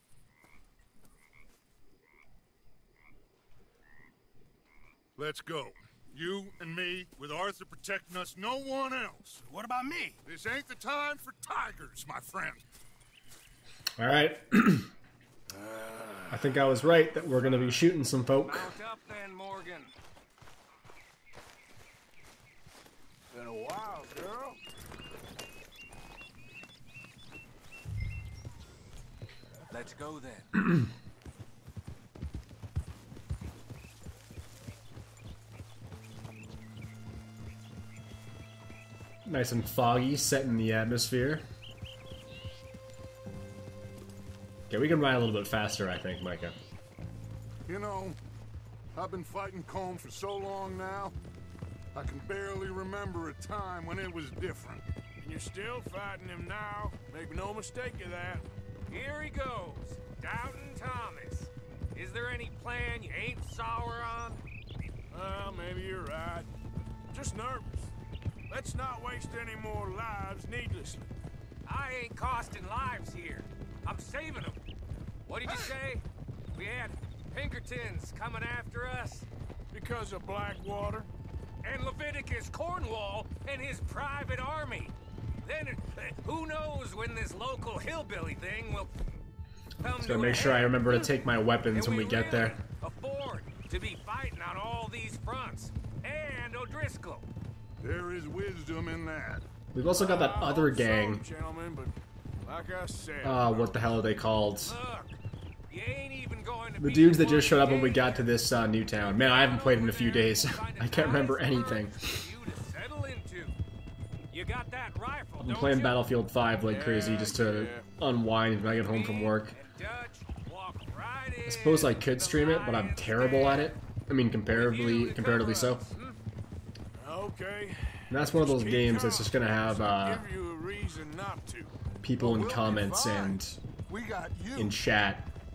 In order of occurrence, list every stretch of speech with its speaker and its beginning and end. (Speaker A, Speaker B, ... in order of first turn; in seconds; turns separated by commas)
Speaker A: 5.2-9.4, Speaker A: 10.2-12.6, Speaker B: 14.0-14.9, Speaker C: 15.5-16.6, Speaker B: 16.3-18.7, Speaker C: 17.4-17.8, Speaker D: 18.4-19.9, Speaker C: 23.3-24.6, Speaker D: 29.7-30.5, Speaker B: 39.2-41.4, Speaker B: 44.7-46.5, Speaker A: 47.7-48.2, Speaker A: 48.9-51.1, Speaker A: 51.9-54.8, Speaker C: 55.2-58.4, Speaker D: 58.9-64.4, Speaker C: 65.1-66.5, Speaker C: 67.1-67.9, Speaker C: 68.5-71.1, Speaker D: 71.7-74.6, Speaker D: 75.2-76.0, Speaker D: 76.5-79.3, Speaker C: 79.7-81.1, Speaker D: 81.6-88.9, Speaker D: 89.8-91.1, Speaker B: 90.0-92.5, Speaker D: 91.7-97.3, Speaker A: 97.8-99.5, Speaker B: 99.7-101.2, Speaker C: 99.9-101.9, Speaker C: 102.4-103.9, Speaker B: 103.2-104.8, Speaker D: 104.6-105.2, Speaker D: 105.7-108.3, Speaker B: 106.8-112.2, Speaker D: 109.2-113.6, Speaker D: 114.3-116.1, Speaker B: 115.4-119.5, Speaker C: 116.6-117.9, Speaker D: 118.6-123.8, Speaker B: 121.5-125.8, Speaker D: 124.5-126.2, Speaker C: 127.0-131.7, Speaker B: 128.1-130.2, Speaker B: 132.0-133.6, Speaker A: 132.2-134.8, Speaker B: 134.6-135.3